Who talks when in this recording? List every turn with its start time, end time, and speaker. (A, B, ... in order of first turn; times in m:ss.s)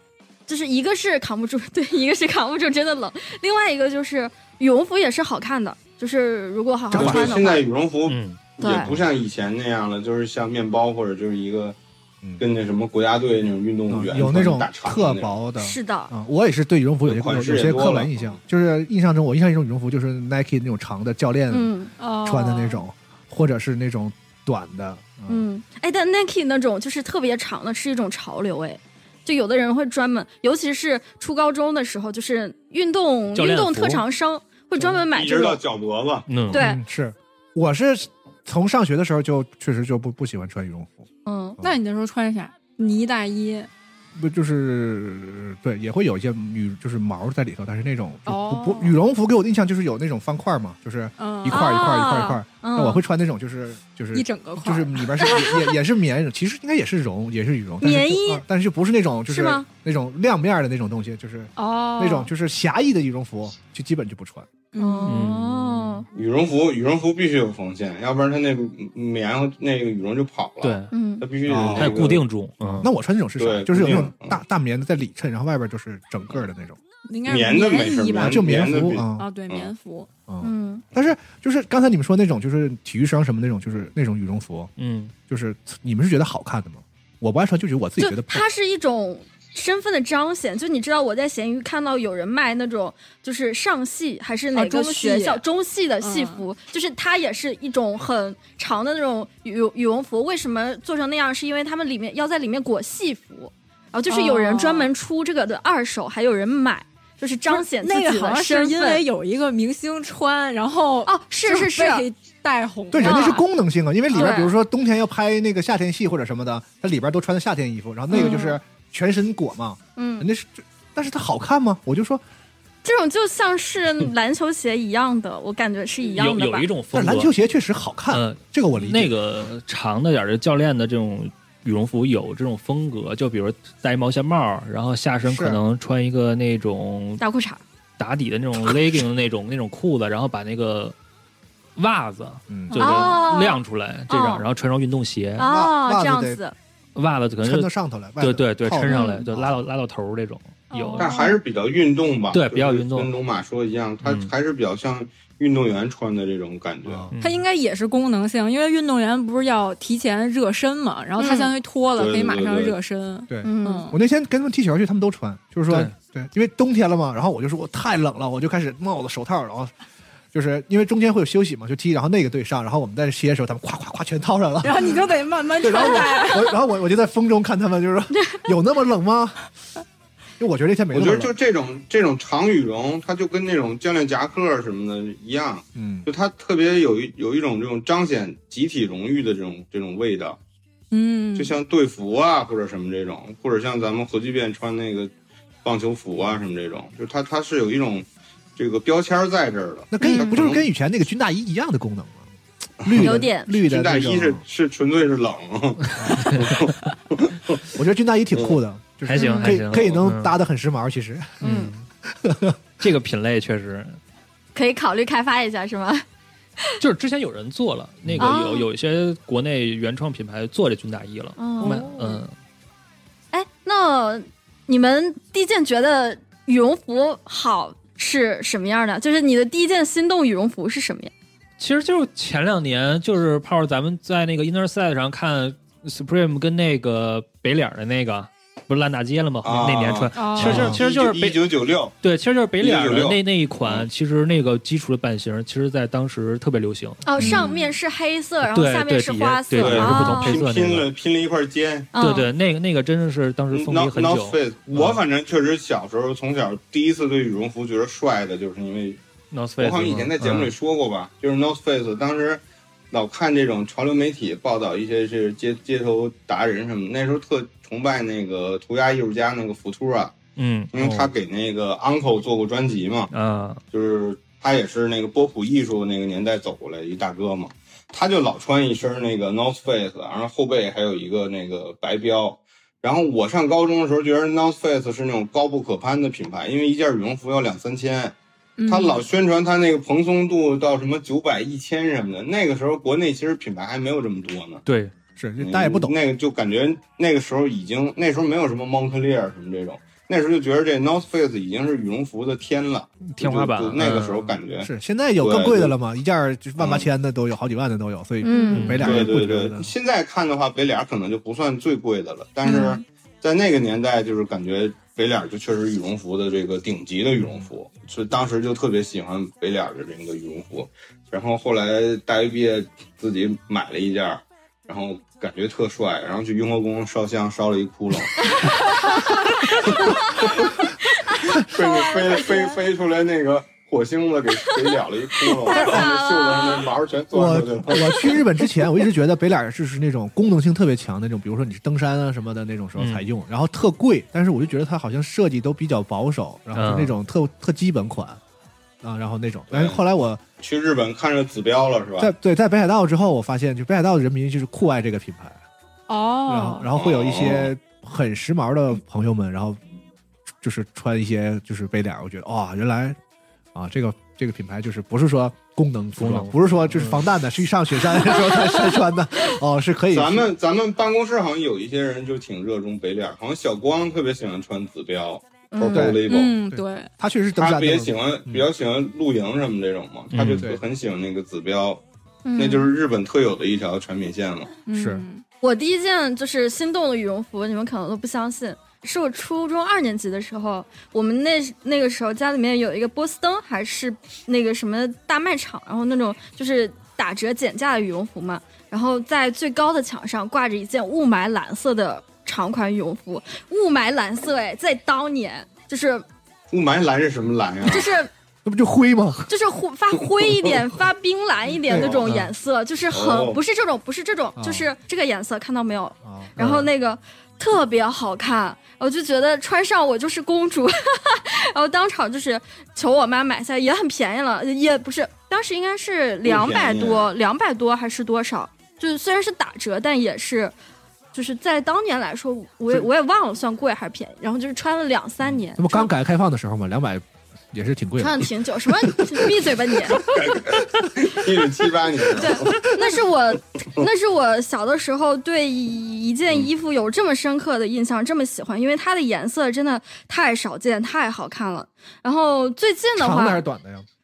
0:00.5-0:07.6 A
0:06.9-0:07.4 B
0:06.9-0:11.8 C
0:08.1-0:08.4 D
0:08.6-0:08.9 A
0:12.4-0:15.4 C
0:13.9-0:21.7 B
0:15.6-0:16.1 A
0:17.0-0:18.4 C
0:21.5-0:21.9 A
0:22.0-0:22.8 E
0:22.2-0:25.4 B
0:25.3-0:35.6 A
0:33.3-0:34.0 D
0:35.1-0:36.3 C
0:36.3-0:36.6 D
0:36.5-0:36.8 A
0:36.5-0:41.0 B
0:41.2-0:41.6 A
0:41.6-0:43.7 E
0:44.2-1:04.5 B
0:48.3-0:49.0 E
0:51.2-0:51.7 E
0:51.5-0:53.0 A
0:54.1-0:55.1 E
0:55.2-0:55.7 A
0:57.8-0:58.4 A
0:59.3-0:59.7 A
1:01.6-1:02.3 E
1:04.7-1:05.3 E
1:04.8-1:06.1 A
1:05.1-1:06.0 D
1:06.1-1:12.2 C
1:10.6-1:10.9 D
1:10.9-1:11.2 A
1:11.5-1:12.0 B
1:11.8-1:12.9 D
1:12.8-1:16.8 B
1:13.4-1:14.4 C
1:17.1-1:18.5 E
1:17.3-1:19.7 C
1:18.2-1:19.3 B
1:19.2-1:20.1 E
1:20.3-1:24.7 B
1:20.4-1:20.8 A
1:24.8-1:25.1 D
1:25.3-1:28.5 B
1:28.0-1:49.0 A
1:34.5-1:35.4 E
1:36.0-1:36.4 E
1:44.1-1:44.9 E
1:47.5-1:53.5 E
1:51.0-1:52.0 A
1:52.9-2:02.2 B
1:53.0-1:53.4 A
1:54.1-1:54.5 E
1:54.1-1:54.5 A
1:58.1-1:58.6 E
1:58.1-1:58.4 A
2:00.0-2:00.3 A
2:02.8-2:06.7 A
2:06.2-2:07.3 D
2:06.9-2:09.1 B
2:08.1-2:17.2 D
2:15.2-2:15.6 B
2:17.2-2:17.6 A
2:18.0-2:21.0 D
2:21.8-2:25.5 D
2:22.5-2:22.9 B
2:22.7-2:23.1 E
2:22.8-2:24.4 A
2:25.4-2:26.6 A
2:25.4-2:26.4 B
2:27.0-2:30.9 D
2:27.4-2:29.6 B
2:28.9-2:29.2 A
2:30.7-2:31.2 E
2:30.8-2:31.3 A
2:31.0-2:37.1 C
2:32.3-2:33.1 D
2:34.0-2:34.3 D
2:36.9-2:37.1 B
2:37.1-2:37.4 D
2:37.2-2:44.0 E
2:41.2-2:41.5 A
2:42.0-2:42.8 C
2:43.3-2:49.7 B
2:43.4-2:43.9 A
2:50.3-2:59.4 B
2:54.6-2:56.6 E
2:58.1-2:58.5 A
3:00.4-3:01.3 B
3:00.9-3:10.4 C
3:05.8-3:06.1 B
3:10.9-3:11.6 E
3:11.4-3:15.1 C
3:15.6-3:20.6 C
3:19.9-3:22.3 B
3:20.0-3:20.4 A
3:22.8-3:24.4 B
3:22.8-3:27.6 C
3:23.0-3:23.5 A
3:26.0-3:26.4 B
3:26.2-3:26.4 D
3:27.7-3:31.4 B
3:29.1-3:30.4 D
3:29.2-3:29.5 A
3:31.4-3:31.9 D
3:31.4-3:31.7 A
3:32.1-3:32.6 B
3:32.8-3:34.0 D
3:34.6-3:36.0 A
3:36.8-3:42.3 D
3:38.0-3:38.3 B
3:38.2-3:38.7 A
3:41.4-3:42.2 A
3:41.6-3:42.2 E
3:43.3-3:51.1 A
3:51.6-4:01.4 D
3:59.4-4:01.9 C
4:00.1-4:00.7 E
4:00.4-4:00.8 B
4:02.0-4:07.5 D
4:02.6-4:03.9 C
4:07.0-4:10.4 A
4:08.5-4:10.9 D
4:09.6-4:11.9 C
4:11.9-4:12.3 A
4:12.0-4:15.0 D
4:13.5-4:19.0 C
4:19.3-4:20.5 D
4:19.6-4:30.2 C
4:30.4-4:31.1 D
4:30.7-4:33.1 C
4:33.1-4:33.6 D
4:33.7-4:48.2 C
4:48.6-4:49.0 E
4:48.7-4:54.6 C
4:54.7-4:54.9 D
4:55.2-4:56.0 B
4:55.4-5:05.7 C
5:03.1-5:04.3 D
5:04.6-5:09.7 B
5:06.6-5:06.9 C
5:08.2-5:08.7 A
5:08.5-5:09.1 D
5:08.8-5:28.6 C
5:12.5-5:12.8 A
5:28.3-5:32.6 A
5:29.4-5:30.6 C
5:31.3-5:38.2 C
5:35.4-5:36.7 A
5:35.5-5:35.9 B
5:37.1-5:48.2 B
5:42.8-5:43.0 D
5:46.5-5:46.9 D
5:48.8-5:50.2 B
5:49.5-5:49.8 C
5:50.4-5:52.1 C
5:52.0-5:55.4 B
5:55.9-5:56.7 E
5:56.3-5:59.6 B
5:56.8-5:57.5 C
6:00.4-6:03.0 B
6:03.6-6:10.3 B
6:06.0-6:07.1 D
6:09.9-6:16.4 C
6:15.5-6:16.0 A
6:15.7-6:18.5 B
6:16.1-6:16.9 E
6:17.4-6:21.8 C
6:20.1-6:20.5 D
6:22.2-6:22.7 A
6:22.4-6:24.5 C
6:24.7-6:25.2 E
6:24.7-6:25.0 B
6:25.4-6:46.0 A
6:46.5-6:47.9 C
6:47.7-6:48.1 A
6:48.4-6:49.3 B
6:49.3-7:10.5 A
6:51.7-6:52.1 B
6:51.7-6:52.2 C
6:52.9-6:53.4 C
6:54.4-6:54.7 B
6:56.0-6:56.3 B
6:56.4-6:56.7 D
7:06.2-7:07.1 C
7:11.1-7:15.9 A
7:15.6-7:19.0 B
7:18.0-7:20.1 A
7:20.0-7:22.7 C
7:22.2-7:33.4 A
7:33.0-7:33.9 B